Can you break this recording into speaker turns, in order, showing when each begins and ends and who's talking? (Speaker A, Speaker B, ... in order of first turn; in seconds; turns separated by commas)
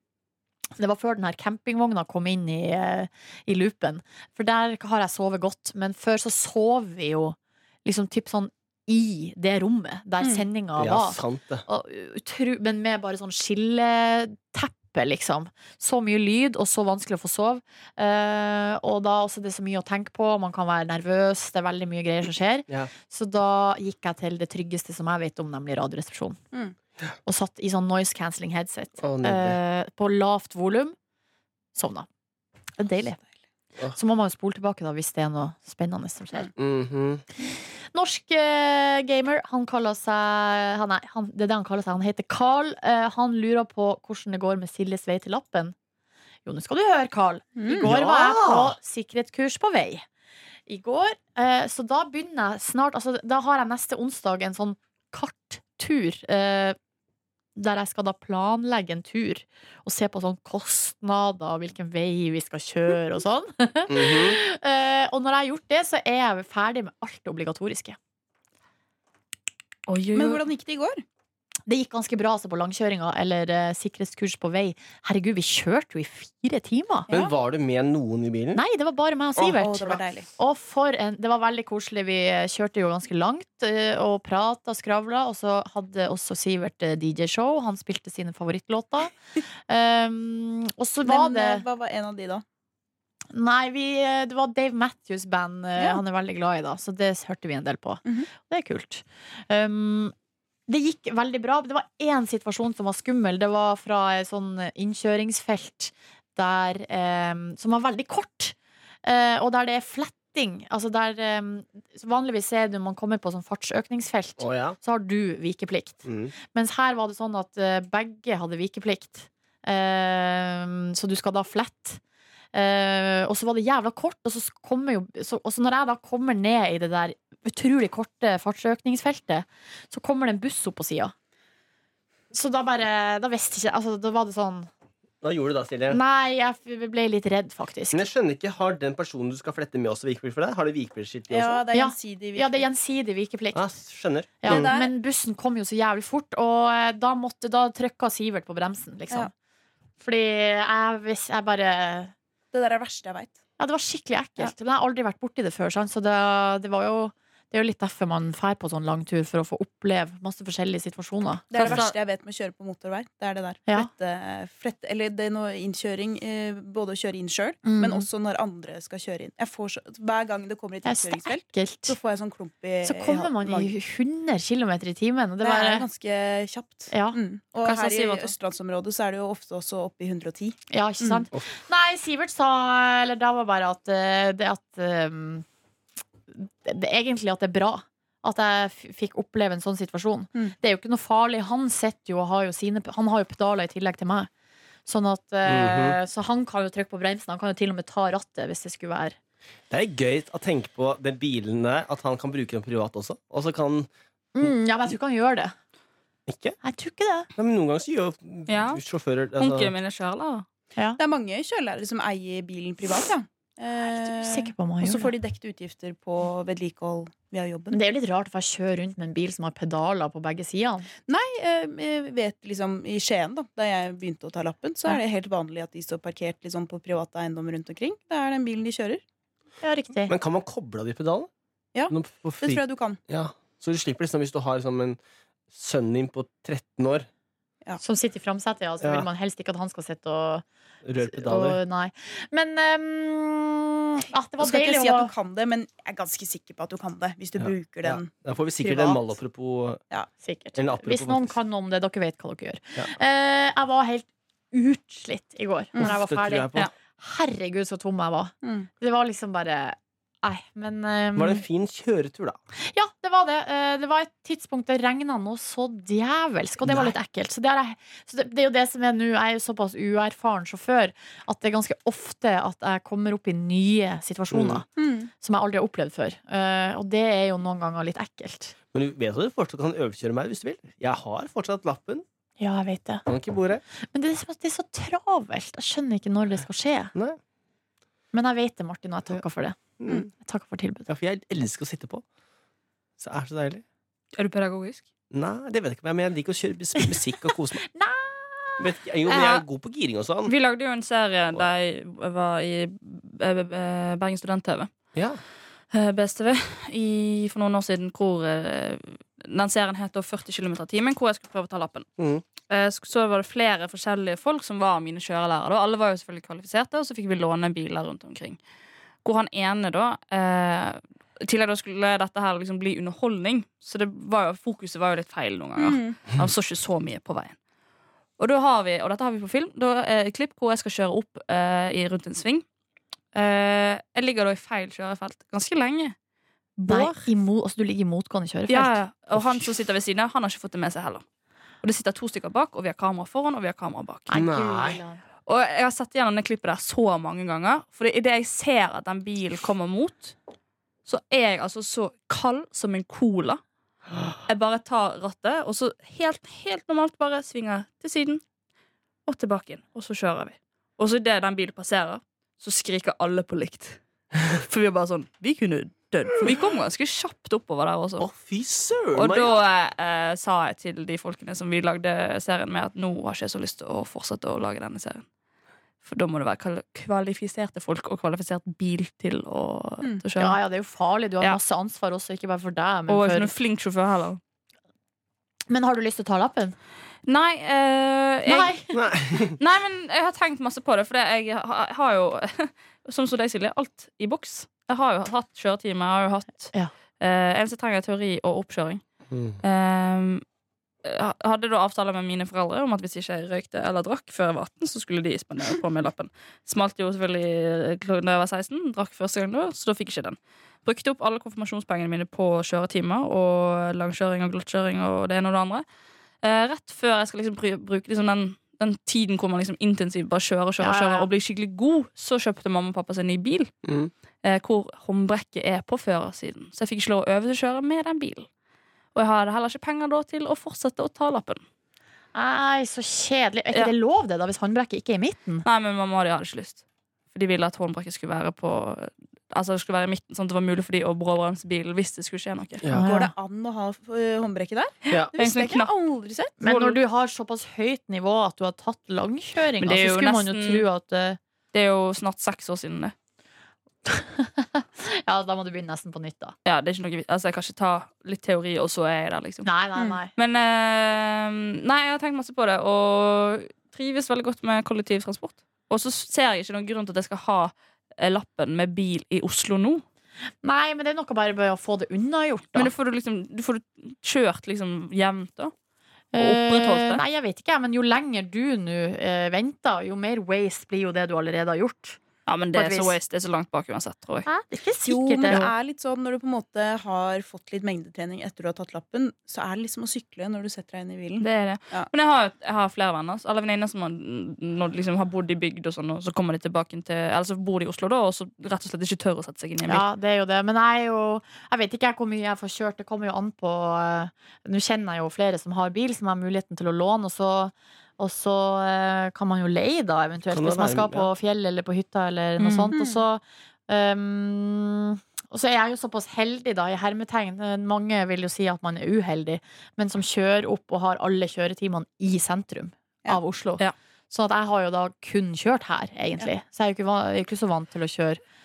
Speaker A: 0.8-26.4, Speaker B: 10.8-11.7, Speaker A: 27.2-31.0, Speaker B: 29.0-29.6, Speaker A: 31.8-32.1, Speaker A: 32.8-33.2, Speaker A: 33.9-36.5, Speaker B: 36.6-37.2, Speaker A: 37.4-45.8, Speaker A: 46.5-50.0, Speaker C: 47.6-47.9, Speaker B: 47.8-48.8, Speaker A: 50.7-56.8, Speaker A: 57.6-68.0, Speaker B: 63.9-64.4, Speaker D: 69.9-70.4, Speaker C: 70.1-71.0, Speaker A: 71.7-77.1, Speaker B: 77.1-78.6, Speaker A: 78.5-89.1, Speaker C: 79.4-80.3, Speaker A: 89.7-91.7, Speaker C: 91.0-92.4, Speaker A: 93.3-100.1, Speaker A: 100.7-122.0, Speaker B: 114.4-114.8, Speaker B: 116.0-116.3, Speaker A: 122.5-131.1, Speaker A: 132.3-134.7, Speaker B: 135.2-136.0, Speaker A: 135.9-138.0, Speaker B: 137.9-141.6, Speaker C: 141.3-142.6, Speaker A: 141.7-143.7, Speaker B: 143.5-144.7, Speaker A: 144.4-149.3, Speaker C: 144.5-144.9, Speaker A: 150.0-152.1, Speaker C: 152.5-153.4, Speaker A: 153.6-161.9, Speaker C: 161.5-173.7, Speaker D: 161.5-161.9, Speaker A: 167.7-168.1, Speaker A: 170.8-172.0, Speaker A: 172.8-175.9, Speaker C: 175.4-181.3, Speaker A: 176.9-177.2, Speaker D: 177.6-178.3, Speaker A: 180.7-185.4, Speaker A: 186.3-194.3, Speaker A: 194.9-199.2, Speaker B: 195.5-196.0, Speaker B: 199.7-203.9, Speaker A: 204.3-205.6, Speaker B: 206.3-206.6, Speaker A: 206.6-207.3, Speaker B: 207.4-209.7, Speaker D: 208.5-208.8, Speaker D: 209.4-210.4, Speaker C: 211.0-217.8, Speaker A: 214.0-215.1, Speaker A: 217.7-220.9, Speaker C: 221.1-229.0, Speaker A: 229.6-230.1, Speaker B: 230.1-231.3, Speaker C: 231.8-233.0, Speaker B: 231.9-235.0, Speaker B: 235.5-237.1, Speaker A: 237.8-240.4, Speaker B: 238.8-239.1, Speaker B: 240.8-241.6, Speaker A: 241.0-245.1, Speaker C: 244.4-249.0, Speaker B: 247.4-249.8, Speaker A: 250.2-261.4, Speaker B: 250.6-251.4, Speaker B: 255.8-256.7, Speaker C: 258.4-258.7, Speaker B: 261.2-262.4, Speaker A: 262.7-274.7, Speaker B: 266.6-266.9, Speaker B: 274.3-274.6, Speaker C: 274.8-275.1, Speaker A: 275.2-278.5, Speaker B: 278.7-282.1, Speaker A: 282.4-283.1, Speaker B: 283.1-283.6, Speaker A: 283.9-286.9, Speaker B: 286.9-287.2, Speaker A: 288.1-289.6, Speaker B: 289.8-290.1, Speaker A: 290.1-290.9, Speaker B: 290.9-292.0, Speaker B: 293.0-293.6, Speaker D: 294.1-294.8, Speaker B: 295.1-297.6, Speaker A: 297.6-298.7, Speaker B: 298.6-300.3, Speaker D: 299.1-299.4, Speaker D: 300.3-304.7, Speaker B: 304.9-305.2, Speaker D: 305.7-311.9, Speaker B: 312.0-312.2, Speaker D: 312.5-318.4, Speaker D: 319.0-327.4, Speaker C: 325.6-326.0, Speaker D: 328.2-332.4, Speaker D: 333.1-335.9, Speaker D: 336.6-337.1, Speaker A: 336.7-338.8, Speaker D: 338.5-341.0, Speaker D: 341.6-344.1, Speaker A: 344.1-345.0, Speaker B: 344.1-344.8, Speaker D: 345.3-350.1, Speaker D: 350.9-353.4, Speaker D: 354.3-358.2, Speaker D: 359.1-368.1, Speaker B: 368.0-369.4, Speaker D: 368.9-375.1, Speaker D: 375.8-380.4, Speaker A: 380.2-383.3, Speaker D: 382.9-384.2, Speaker A: 385.5-386.6, Speaker D: 387.1-388.6, Speaker A: 388.3-388.8, Speaker B: 388.7-389.4, Speaker D: 389.4-398.8, Speaker B: 399.1-399.4, Speaker D: 399.4-400.2, Speaker D: 400.8-415.6, Speaker D: 416.2-423.5, Speaker A: 420.6-421.1, Speaker B: 423.6-423.9, Speaker D: 424.2-428.3, Speaker D: 428.9-431.4, Speaker A: 432.1-435.4, Speaker D: 435.4-436.6, Speaker D: 437.1-442.7, Speaker B: 442.6-442.9, Speaker A: 442.7-443.1, Speaker C: 442.9-446.8, Speaker D: 445.1-445.7, Speaker A: 446.4-451.2, Speaker D: 449.6-450.7, Speaker D: 451.5-452.9, Speaker A: 453.9-456.3, Speaker D: 456.5-459.5, Speaker A: 459.4-460.1, Speaker D: 460.2-469.8, Speaker A: 470.4-472.7, Speaker D: 472.6-475.5, Speaker A: 476.1-482.0, Speaker D: 476.2-477.0, Speaker D: 482.3-484.3, Speaker A: 482.5-482.9, Speaker A: 484.3-485.5, Speaker C: 484.8-491.9, Speaker D: 491.2-499.9, Speaker A: 499.7-528.2, Speaker B: 510.3-511.1, Speaker D: 512.4-512.6, Speaker C: 512.7-513.0